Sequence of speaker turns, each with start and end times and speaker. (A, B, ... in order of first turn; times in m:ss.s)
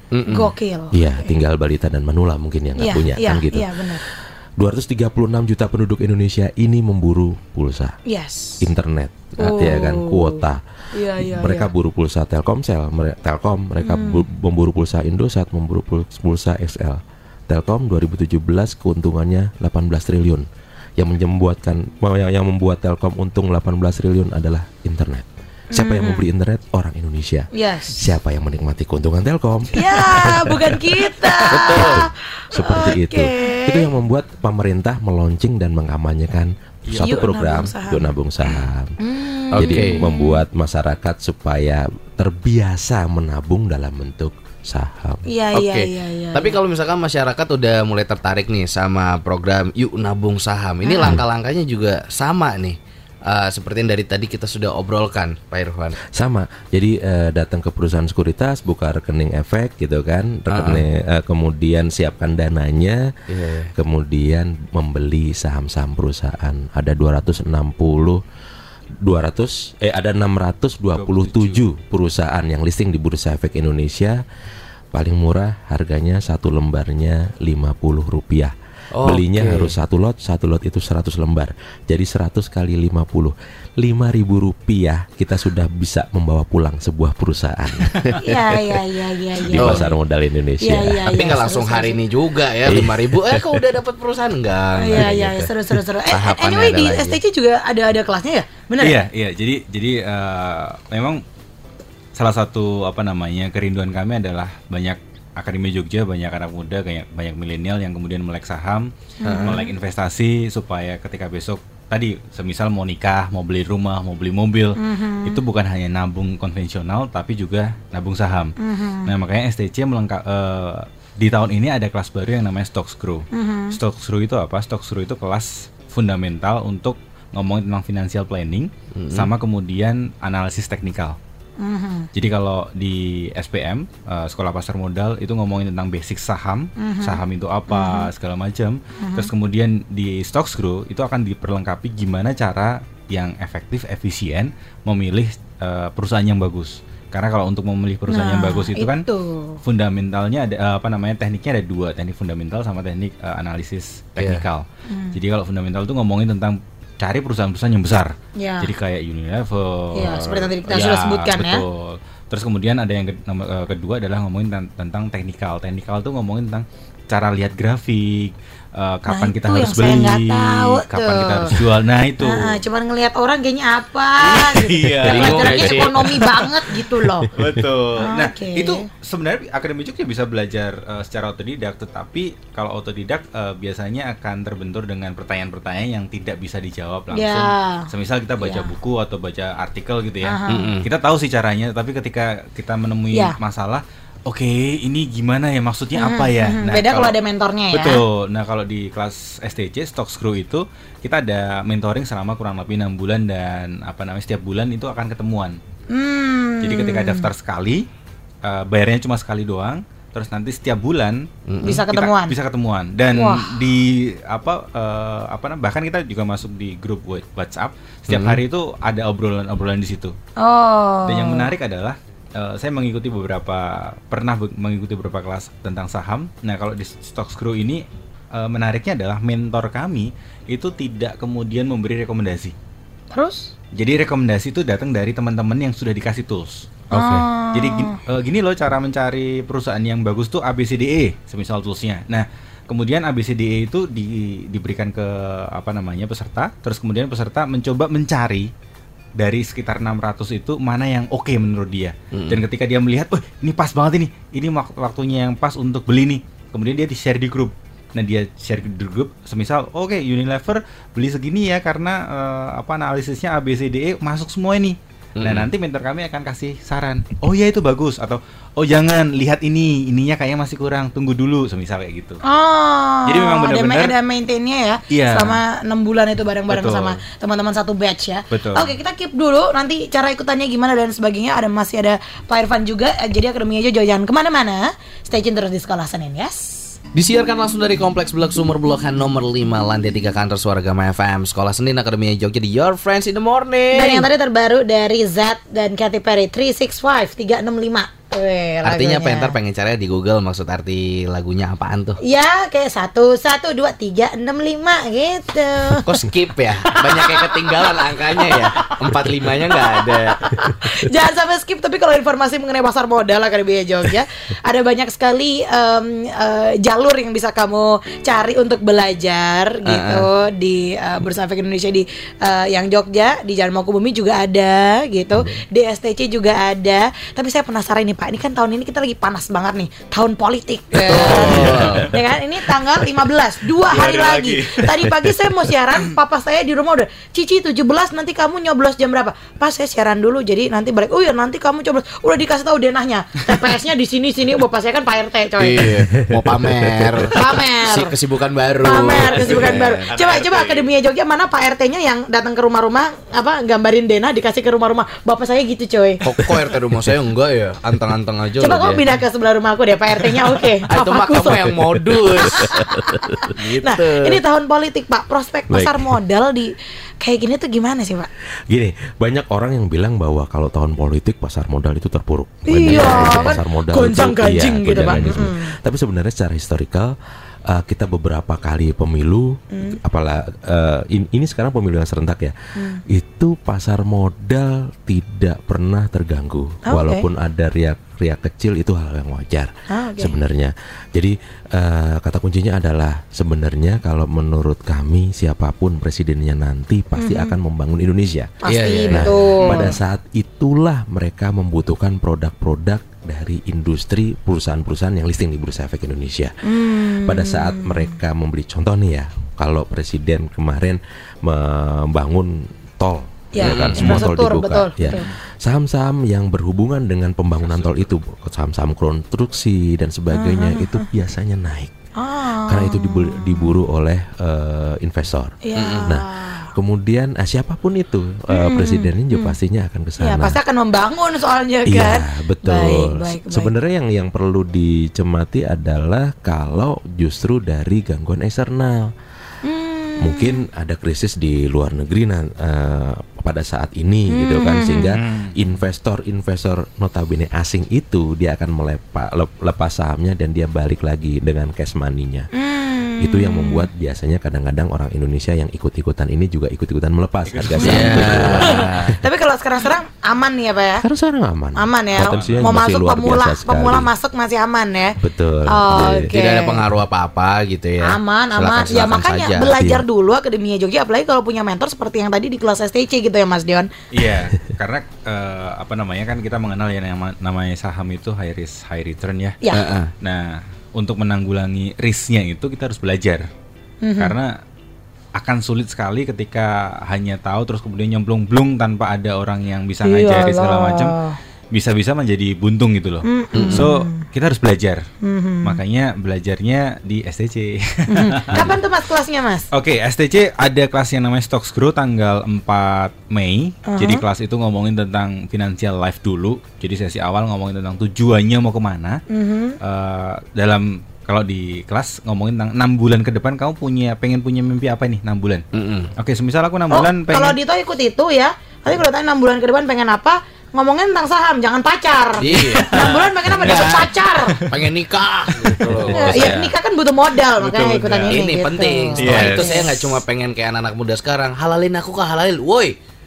0:00.1-0:00.5 A
0:00.3-0:01.3 B
0:00.9-0:08.0 C
0:02.8-0:04.0 B
0:08.0-0:08.6 B
0:08.6-0:10.6 C
0:09.4-0:11.7 B
0:09.4-0:09.8 A
0:11.1-0:30.9 C
0:13.8-0:14.2 B
0:25.7-0:26.2 B
0:27.5-0:28.1 B
0:29.7-0:33.9 B
0:31.5-0:32.0 A
0:31.5-0:39.0 C
0:36.8-0:37.1 D
0:37.0-0:38.1 B
0:39.0-0:40.4 B
0:39.5-0:45.2 C
0:39.5-0:40.0 A
0:45.3-0:46.6 B
0:45.5-0:56.0 A
0:50.8-0:51.2 B
0:56.1-1:03.1 C
1:00.5-1:00.8 A
1:03.3-1:03.7 A
1:03.7-1:08.2 C
1:09.0-1:14.2 C
1:10.9-1:11.6 D
1:14.9-1:28.8 C
1:18.9-1:19.7 A
1:28.2-1:29.9 B
1:29.4-1:31.1 C
1:29.6-1:29.9 A
1:30.6-1:32.0 B
1:31.1-1:35.5 A
1:32.6-1:33.6 C
1:34.8-1:39.0 B
1:36.0-1:37.2 A
1:38.8-1:41.2 D
1:42.1-1:48.9 D
1:49.2-1:49.7 B
1:49.2-1:49.6 A
1:49.4-1:58.5 D
1:54.8-1:55.4 B
1:58.6-1:59.1 B
1:59.0-2:11.2 D
2:03.3-2:03.8 B
2:09.0-2:09.3 A
2:11.6-2:12.1 B
2:12.1-2:29.0 D
2:16.8-2:18.1 B
2:19.0-2:19.3 B
2:28.1-2:29.6 B
2:29.6-2:52.6 D
2:34.2-2:34.4 A
2:34.9-2:35.2 B
2:38.4-2:38.7 B
2:39.9-2:41.6 B
2:49.1-2:51.5 B
2:52.2-2:57.3 B
2:54.2-2:56.4 D
2:55.0-2:56.2 A
2:57.3-3:17.2 D
2:58.0-2:58.9 B
3:07.1-3:07.9 B
3:08.4-3:08.7 B
3:10.2-3:10.8 B
3:10.5-3:10.9 A
3:15.9-3:18.0 B
3:17.7-3:25.6 D
3:25.9-3:27.3 B
3:26.6-3:27.8 D
3:28.4-3:31.3 D
3:31.5-3:31.8 A
3:31.6-3:32.3 B
3:31.9-3:40.1 D
3:33.1-3:33.5 B
3:38.1-3:38.4 A
3:40.4-3:41.5 B
3:41.0-3:52.5 D
3:53.1-3:53.5 B
3:53.7-4:08.5 D
3:56.9-3:58.0 B
4:09.2-4:32.2 D
4:12.1-4:12.4 A
4:25.2-4:25.5 A
4:32.2-4:46.7 B
4:33.0-4:33.9 D
4:34.9-4:35.4 D
4:36.5-4:37.0 D
4:38.3-4:38.7 D
4:46.9-4:54.1 A
4:53.7-4:59.3 B
4:58.6-5:02.0 A
5:02.0-5:05.9 B
5:05.8-5:10.2 A
5:06.8-5:08.8 B
5:09.5-5:45.7 B
5:19.6-5:20.1 A
5:30.8-5:31.9 A
5:31.0-5:31.9 D
5:31.3-5:31.8 C
5:33.7-5:35.1 D
5:45.4-5:49.9 A
5:45.8-5:47.1 C
5:47.1-5:48.0 B
5:48.6-5:56.0 B
5:49.0-5:50.7 D
5:56.0-5:58.8 A
5:56.2-5:56.4 C
5:58.4-6:01.5 B
6:00.7-6:02.6 A
6:01.2-6:03.3 C
6:02.3-6:08.1 B
6:03.3-6:04.2 A
6:05.5-6:05.9 C
6:08.5-6:16.9 C
6:12.5-6:15.5 B
6:17.5-6:22.3 C
6:19.5-6:19.8 B
6:22.6-6:22.8 B
6:22.9-7:01.7 C
6:26.6-6:27.0 B
6:29.7-6:30.2 B
6:37.0-6:37.3 B
6:38.4-6:39.7 B
6:38.5-6:39.2 A
6:46.4-6:48.0 B
6:53.3-6:55.0 B
6:53.4-6:54.0 A
6:57.4-6:57.8 D
7:00.1-7:00.9 B
7:02.0-7:03.6 B
7:02.5-7:10.4 C
7:05.4-7:06.5 B
7:05.6-7:05.9 A
7:08.3-7:09.4 B
7:10.0-7:13.5 B
7:11.6-7:18.9 C
7:19.4-7:20.4 B
7:20.0-7:32.3 C
7:24.1-7:25.0 B
7:25.0-7:25.4 D
7:32.4-7:33.7 B
7:33.0-7:39.0 C
7:37.3-7:38.4 D
7:37.6-7:39.0 A
7:37.6-7:40.8 B
7:40.8-7:43.9 C
7:41.6-7:46.6 B
7:42.0-7:42.5 D
7:45.0-7:46.1 C
7:45.8-7:49.5 A
7:47.8-7:53.7 B
7:49.6-7:49.8 C
7:53.9-7:59.4 D
7:59.4-7:59.7 B
7:59.5-7:59.9 A
8:00.0-8:03.3 D
8:03.8-8:04.1 B
8:04.0-8:04.3 D
8:05.2-8:11.0 D
8:09.8-8:11.2 B
8:11.5-8:14.8 D
8:13.0-8:14.0 B
8:13.3-8:13.7 A
8:15.0-8:15.6 B
8:15.4-8:18.5 D
8:17.9-8:19.5 B
8:19.5-8:29.0 D
8:23.7-8:24.0 B
8:29.1-8:29.6 B
8:29.6-8:35.4 D
8:35.5-8:35.9 A
8:36.0-8:37.4 D
8:36.7-8:44.4 B
8:42.2-8:43.9 A
8:42.7-8:43.0 D
8:44.5-8:46.4 A
8:45.4-8:46.4 D
8:45.8-8:46.5 C
8:45.9-8:49.8 B
8:47.4-8:48.3 D
8:48.1-8:52.7 A
8:49.0-8:49.9 D